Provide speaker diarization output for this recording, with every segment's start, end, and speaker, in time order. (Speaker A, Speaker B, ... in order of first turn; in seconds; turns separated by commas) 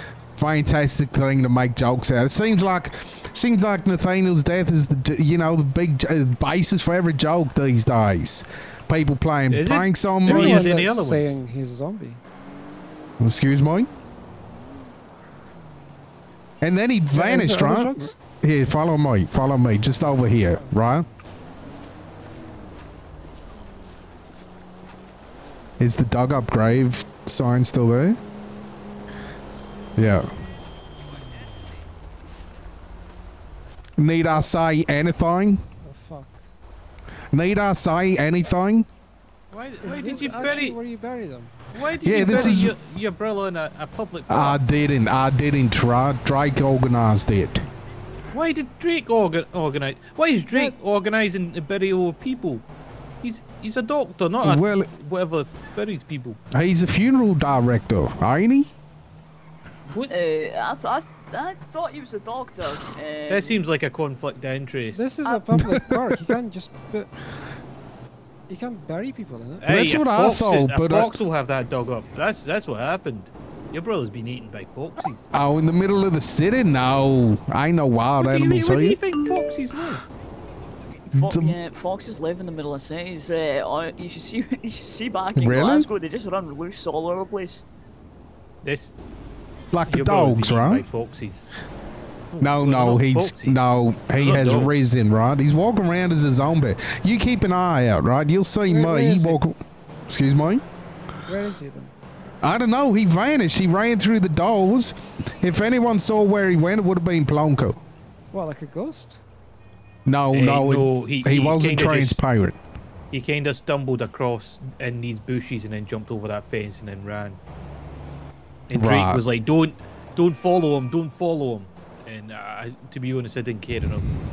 Speaker A: 0.4-10.8, Speaker B: 9.5-11.4, Speaker C: 10.2-12.2, Speaker A: 13.2-13.9, Speaker A: 16.6-21.1, Speaker C: 17.1-18.2, Speaker A: 25.8-28.2, Speaker A: 30.0-30.3, Speaker A: 34.0-35.6, Speaker C: 35.8-36.5, Speaker A: 37.3-38.9, Speaker B: 39.5-40.8, Speaker C: 39.8-41.6, Speaker B: 41.7-44.6, Speaker A: 42.0-42.8, Speaker C: 42.1-42.6, Speaker A: 44.3-47.7, Speaker B: 48.3-52.6, Speaker C: 50.5-50.8, Speaker B: 53.2-56.4, Speaker A: 54.4-54.9, Speaker A: 56.5-58.7, Speaker B: 59.9-60.1, Speaker D: 60.1-63.6, Speaker B: 63.3-65.1, Speaker C: 64.9-67.1, Speaker A: 65.5-66.2, Speaker C: 68.5-69.7, Speaker B: 69.6-75.2, Speaker A: 69.7-71.2, Speaker A: 75.3-79.0, Speaker B: 78.2-80.0, Speaker D: 81.1-87.6, Speaker A: 81.1-81.6, Speaker A: 85.3-85.9, Speaker B: 88.6-89.0, Speaker A: 89.7-90.9, Speaker B: 89.9-91.5, Speaker B: 92.3-94.7, Speaker A: 92.4-99.6, Speaker C: 98.7-99.4, Speaker A: 100.1-100.6, Speaker C: 101.3-102.0, Speaker A: 102.4-107.8, Speaker C: 108.3-109.2, Speaker A: 110.1-112.6, Speaker B: 110.3-112.2, Speaker B: 113.1-117.4, Speaker B: 118.7-124.1, Speaker A: 118.7-119.2